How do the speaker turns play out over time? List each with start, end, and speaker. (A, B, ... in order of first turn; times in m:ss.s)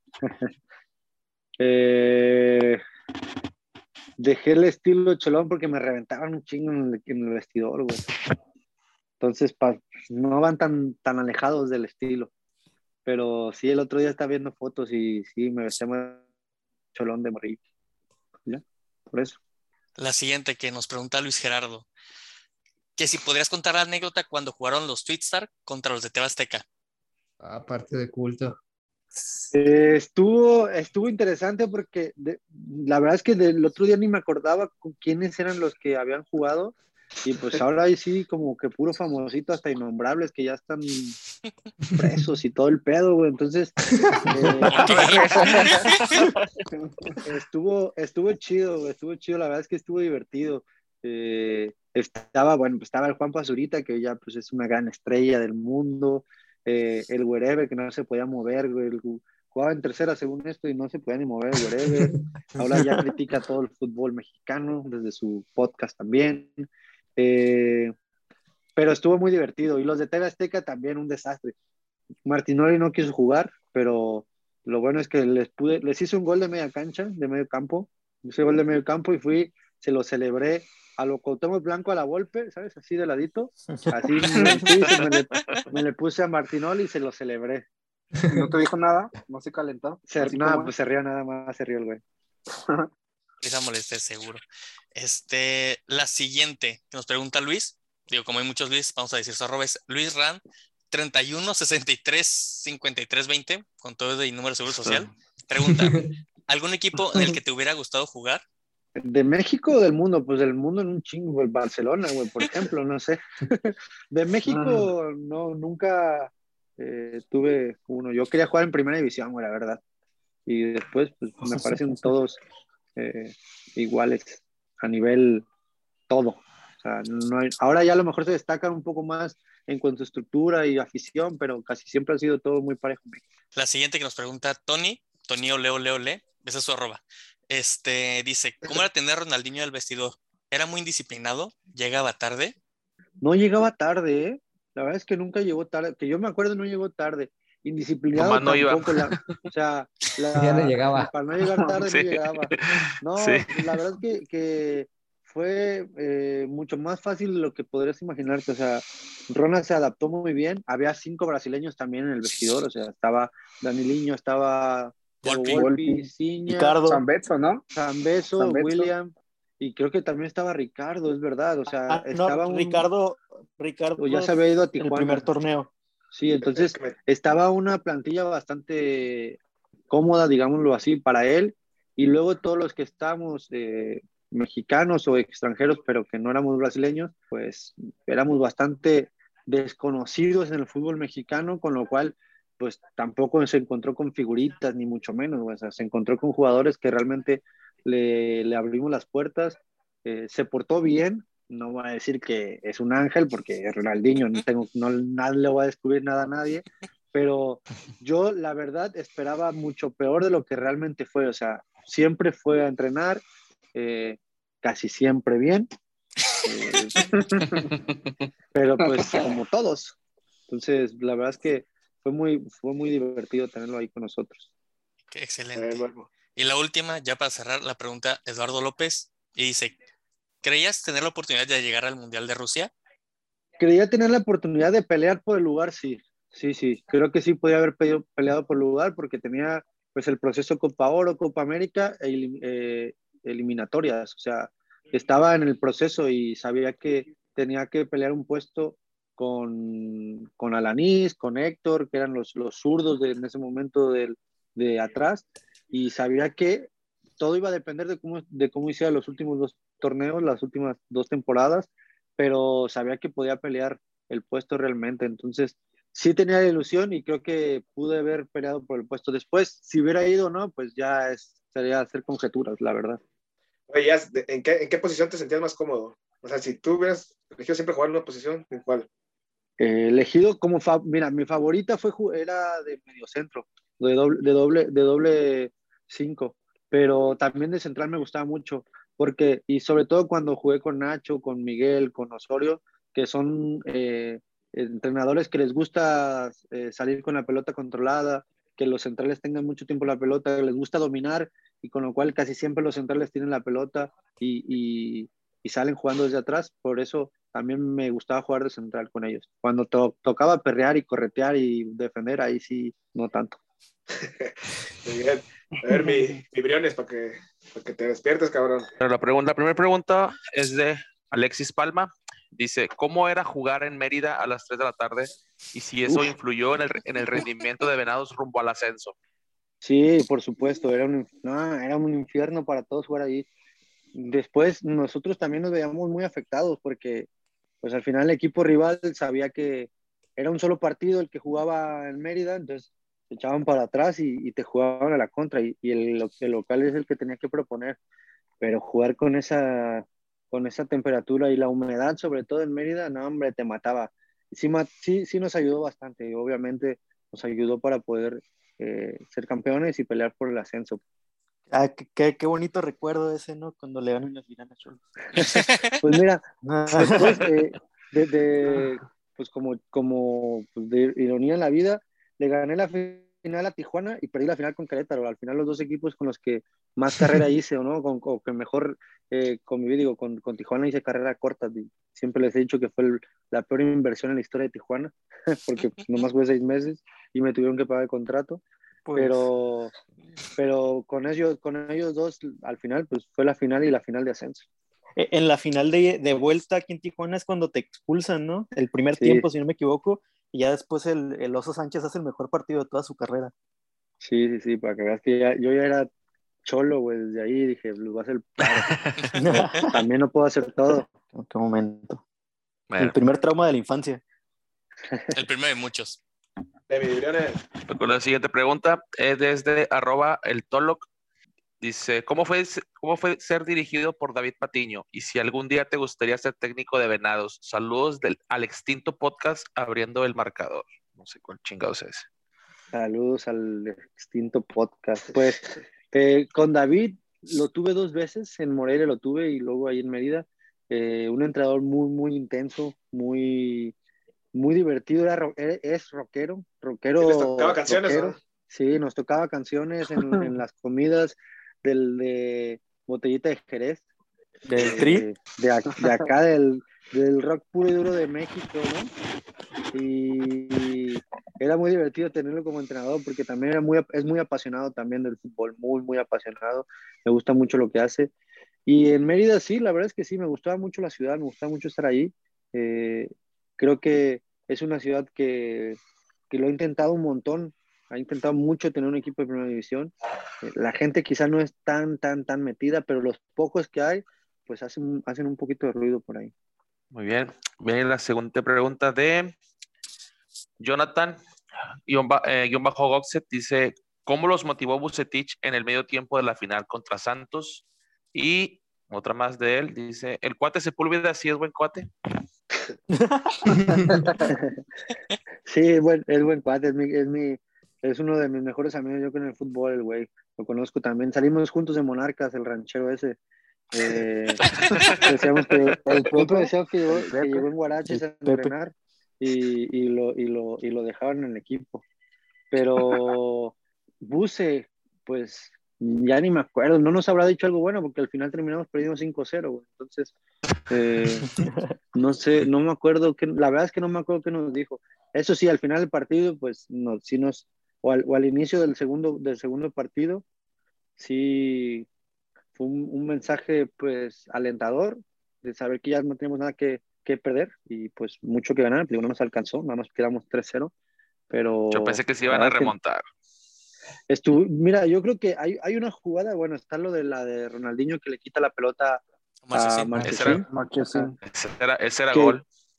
0:01.6-0:02.8 A
0:04.2-0:08.1 A
0:09.2-0:12.3 A
0:13.1-0:16.2 A
0:16.9-0:17.6 A
0:18.5-0:19.4 A
0:20.0-0:21.9 B
0:23.0-0:26.6 B
0:27.4-0:28.6 C
0:29.2-0:29.5 D
0:29.5-0:41.2 A
0:42.0-0:45.5 A
0:44.7-0:46.3 B
0:44.8-0:45.9 E
0:46.8-0:47.2 E
0:47.2-1:07.9 A
1:08.8-1:11.5 A
1:12.3-1:27.7 A
1:24.3-1:24.6 D
1:24.3-1:24.8 E
1:28.3-1:30.7 E
1:30.1-1:32.0 A
1:32.5-1:32.9 E
1:33.4-1:34.4 B
1:35.0-1:48.4 B
1:45.6-1:46.1 C
1:49.0-1:59.8 A
1:54.5-1:54.9 E
2:00.5-2:02.4 A
2:03.0-2:05.4 A
2:06.1-2:13.2 A
2:13.6-2:22.6 B
2:23.2-2:46.8 A
2:28.1-2:29.3 F
2:30.3-2:31.1 C
2:31.8-2:33.5 F
2:45.2-2:45.6 B
2:45.5-2:46.1 E
2:46.5-2:47.0 D
2:46.8-2:47.6 E
2:47.8-2:52.9 A
2:48.4-2:48.9 E
2:51.9-2:55.7 D
2:54.0-2:55.3 A
2:56.1-2:59.4 A
2:56.6-2:57.0 G
2:59.9-3:35.7 A
3:36.4-3:37.0 A
3:37.0-3:37.7 E
3:38.5-3:40.0 A
3:38.8-3:39.3 E
3:40.5-3:44.5 A
3:45.1-3:49.8 B
3:45.6-3:46.1 G
3:50.4-3:52.7 B
3:53.6-4:16.7 A
4:17.2-4:33.0 A
4:33.7-4:38.9 G
4:39.6-5:13.4 A
5:14.0-5:18.7 G
5:18.8-5:29.0 F
5:25.9-5:26.1 A
5:29.6-5:33.3 A
5:34.0-5:37.1 A
5:37.6-5:47.8 A
5:48.4-6:00.8 A
6:01.5-6:04.8 D
6:05.2-6:05.7 B
6:05.8-6:28.4 A
6:06.4-6:07.2 D
6:28.8-6:29.3 D
6:29.0-6:29.7 A
6:30.4-6:34.5 A
6:35.0-6:43.3 D
6:39.0-6:39.3 A
6:44.0-6:45.9 A
6:46.4-6:48.7 A
6:49.2-6:49.7 D
6:49.6-6:50.9 A
6:51.1-6:52.0 D
6:52.7-6:53.0 F
6:52.8-6:54.0 D
6:55.1-6:56.0 B
6:56.7-6:57.4 G
6:57.7-7:00.9 F
7:01.6-7:12.1 F
7:12.7-7:23.7 A
7:24.3-7:33.8 A
7:27.0-7:28.2 G
7:34.5-7:35.1 D
7:34.6-7:38.9 A
7:39.7-7:48.1 A
7:48.7-7:55.8 A
7:56.3-8:06.3 A
8:06.9-8:09.4 F
8:10.6-8:11.2 F
8:11.9-8:17.6 F
8:18.1-8:21.9 F
8:22.9-8:23.9 D
8:23.8-8:24.0 C
8:24.3-8:24.6 A
8:25.5-8:33.2 A
8:33.8-8:34.4 A
8:34.4-8:35.1 B
8:35.0-8:41.8 A
8:35.9-8:37.4 E
8:37.9-8:38.5 D
8:42.5-8:50.1 A
8:50.7-8:51.3 A
8:51.2-8:51.7 D
8:52.0-9:00.2 A
9:01.0-9:01.9 A
9:02.6-9:10.7 A
9:11.3-9:12.7 A
9:11.7-9:13.0 F
9:14.1-9:21.1 A
9:19.5-9:20.5 B
9:20.5-9:21.2 E
9:21.2-9:22.4 F
9:22.1-9:22.4 A